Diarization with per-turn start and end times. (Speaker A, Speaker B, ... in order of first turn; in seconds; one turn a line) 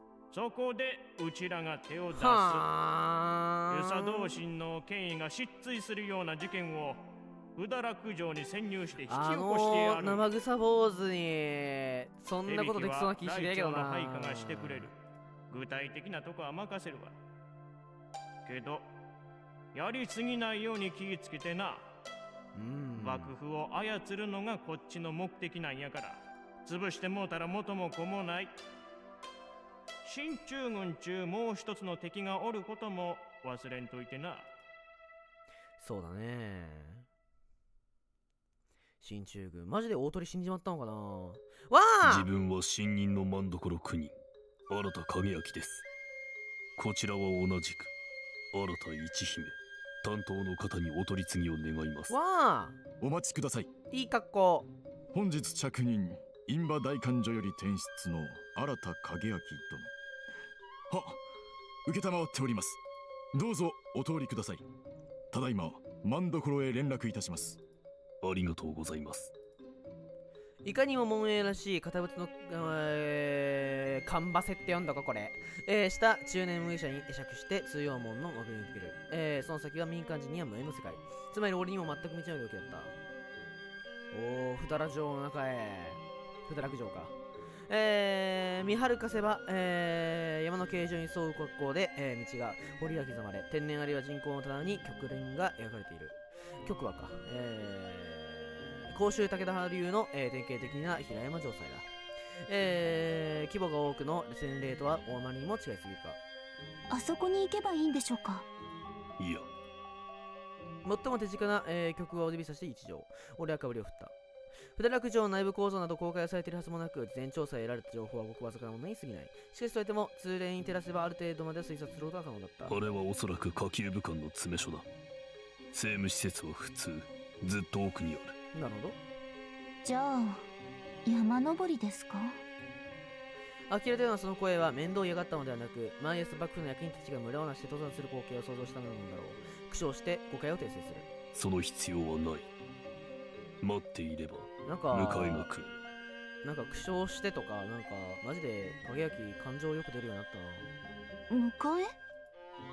Speaker A: 0.3-2.7
Speaker B: 2.1-4.3
Speaker A: 3.7-7.0
Speaker A: 7.6-10.2
Speaker B: 9.1-14.9
Speaker A: 12.5-14.9
Speaker A: 15.5-17.2
Speaker A: 18.5-18.9
Speaker A: 19.7-21.9
Speaker B: 22.6-23.3
Speaker A: 23.0-28.5
Speaker A: 30.0-34.5
Speaker B: 35.8-37.1
Speaker B: 39.0-42.3
Speaker C: 42.0-44.2
Speaker C: 44.7-45.9
Speaker C: 46.8-47.9
Speaker C: 48.5-52.1
Speaker B: 52.1-52.8
Speaker D: 53.0-53.7
Speaker B: 53.9-54.7
Speaker D: 55.1-59.9
Speaker D: 60.9-61.2
Speaker D: 61.9-62.8
Speaker D: 63.3-64.7
Speaker D: 65.3-67.6
Speaker C: 68.2-69.3
Speaker B: 70.6-82.9
Speaker B: 84.1-87.2
Speaker B: 87.7-101.9
Speaker B: 102.5-106.2
Speaker E: 106.9-108.5
Speaker C: 109.2-109.5
Speaker B: 110.8-114.2
Speaker B: 114.8-122.8
Speaker C: 122.7-124.9
Speaker C: 125.7-128.4
Speaker B: 128.5-129.0
Speaker E: 129.8-130.5
Speaker E: 131.1-132.4
Speaker B: 133.7-141.1
Speaker C: 141.3-142.5
Speaker C: 143.6-145.7
Speaker B: 144.7-145.5
Speaker B: 146.4-150.7
Speaker E: 151.3-151.9